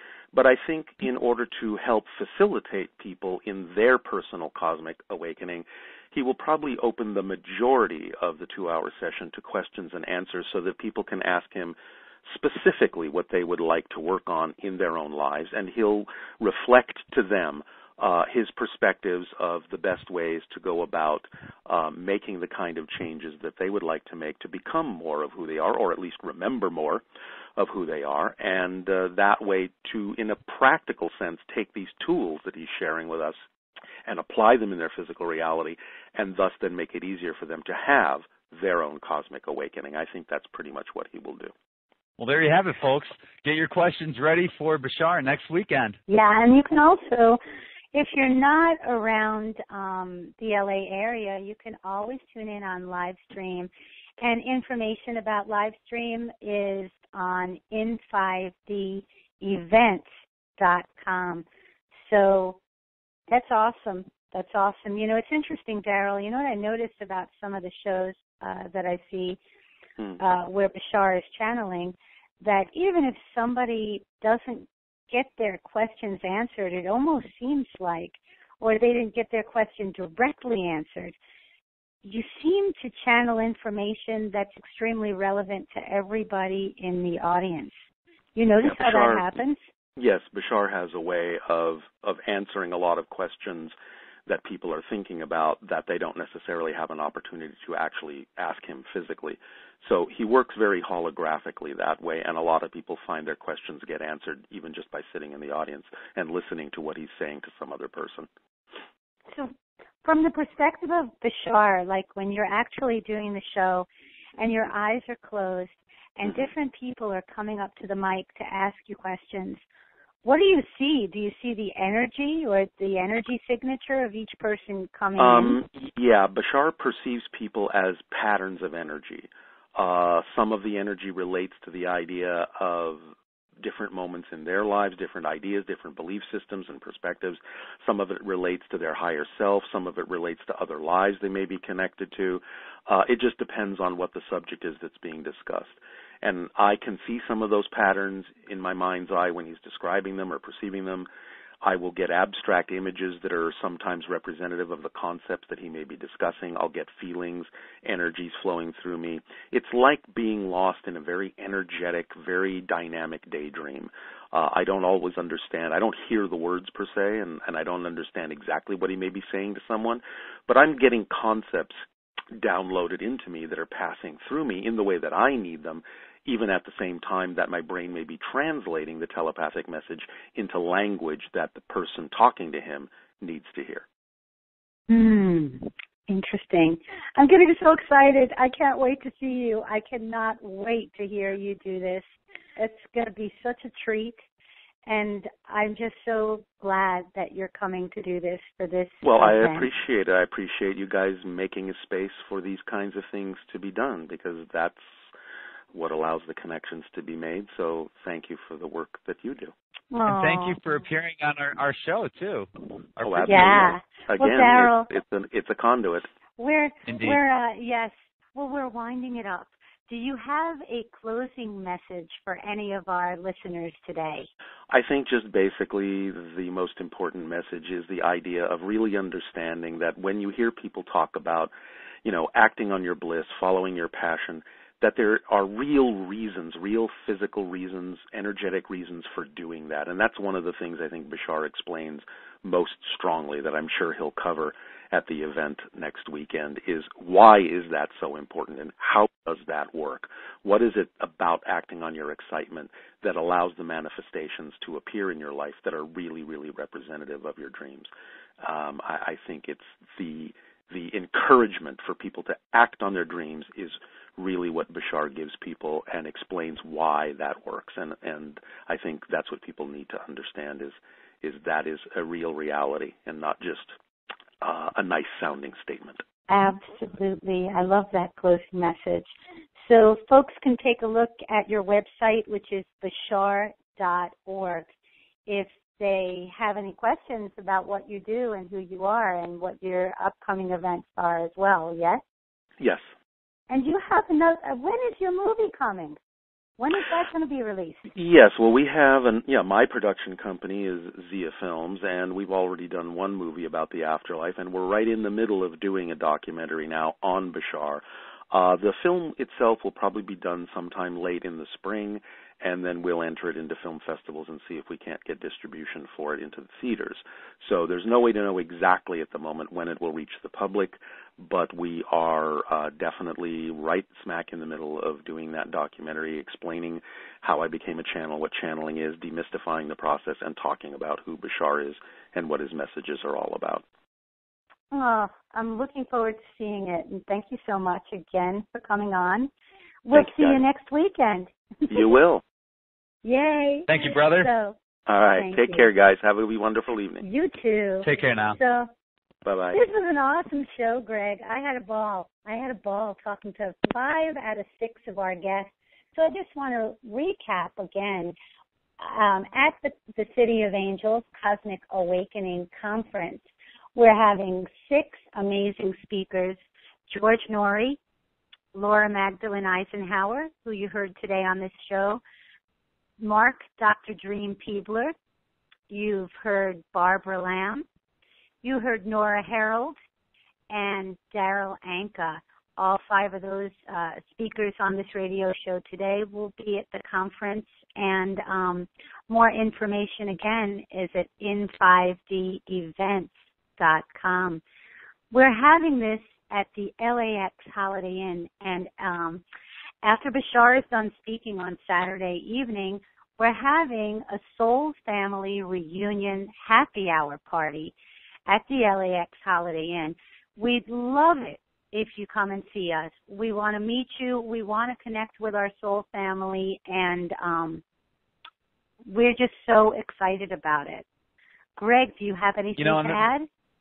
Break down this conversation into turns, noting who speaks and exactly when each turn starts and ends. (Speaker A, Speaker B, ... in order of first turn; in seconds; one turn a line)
Speaker A: 0.3-27.0
Speaker A: 27.6-33.4
Speaker A: 34.0-41.5
Speaker B: 42.2-46.0
Speaker C: 46.1-47.4
Speaker C: 47.9-53.7
Speaker C: 54.2-60.0
Speaker C: 60.6-61.4
Speaker C: 62.0-62.6
Speaker C: 63.3-69.4
Speaker C: 70.2-81.1
Speaker C: 82.0-87.7
Speaker C: 88.3-89.6
Speaker A: 88.6-89.3
Speaker A: 90.0-93.7
Speaker A: 94.3-108.3
Speaker C: 109.3-113.9
Speaker C: 114.4-119.6
Speaker C: 120.2-125.6
Speaker A: 125.2-151.1
Speaker A: 151.6-171.8
Speaker A: 172.3-183.8
Speaker C: 184.9-192.0
Speaker C: 192.6-194.2
Speaker C: 194.8-199.7
Speaker A: 199.0-204.9
Speaker A: 205.7-209.5
Speaker C: 209.9-210.6
Speaker B: 210.1-213.5
Speaker A: 213.0-216.1
Speaker C: 213.2-214.9
Speaker C: 216.4-224.3
Speaker B: 216.9-217.2
Speaker A: 224.7-231.5
Speaker A: 232.0-257.9
Speaker A: 258.4-273.8
Speaker A: 274.4-276.0
Speaker C: 276.3-279.1
Speaker C: 279.6-284.7
Speaker C: 285.3-292.0
Speaker A: 292.6-292.8
Speaker C: 293.5-296.0
Speaker C: 296.6-297.9
Speaker A: 297.9-333.6
Speaker C: 334.7-339.3
Speaker C: 339.9-341.9
Speaker A: 339.9-340.4
Speaker A: 341.7-342.2
Speaker C: 343.0-344.6
Speaker B: 343.7-344.3
Speaker A: 344.9-347.0
Speaker C: 345.1-345.7
Speaker C: 347.0-348.7
Speaker B: 347.8-348.4
Speaker A: 349.2-349.6
Speaker C: 349.5-358.1
Speaker C: 358.8-367.8
Speaker C: 368.5-372.0
Speaker C: 373.0-374.9
Speaker C: 375.7-377.6
Speaker C: 378.4-379.8
Speaker C: 380.5-394.4
Speaker C: 395.1-399.2
Speaker C: 399.8-407.7
Speaker C: 408.3-417.6
Speaker C: 418.9-420.8
Speaker C: 421.6-423.3
Speaker B: 422.6-423.1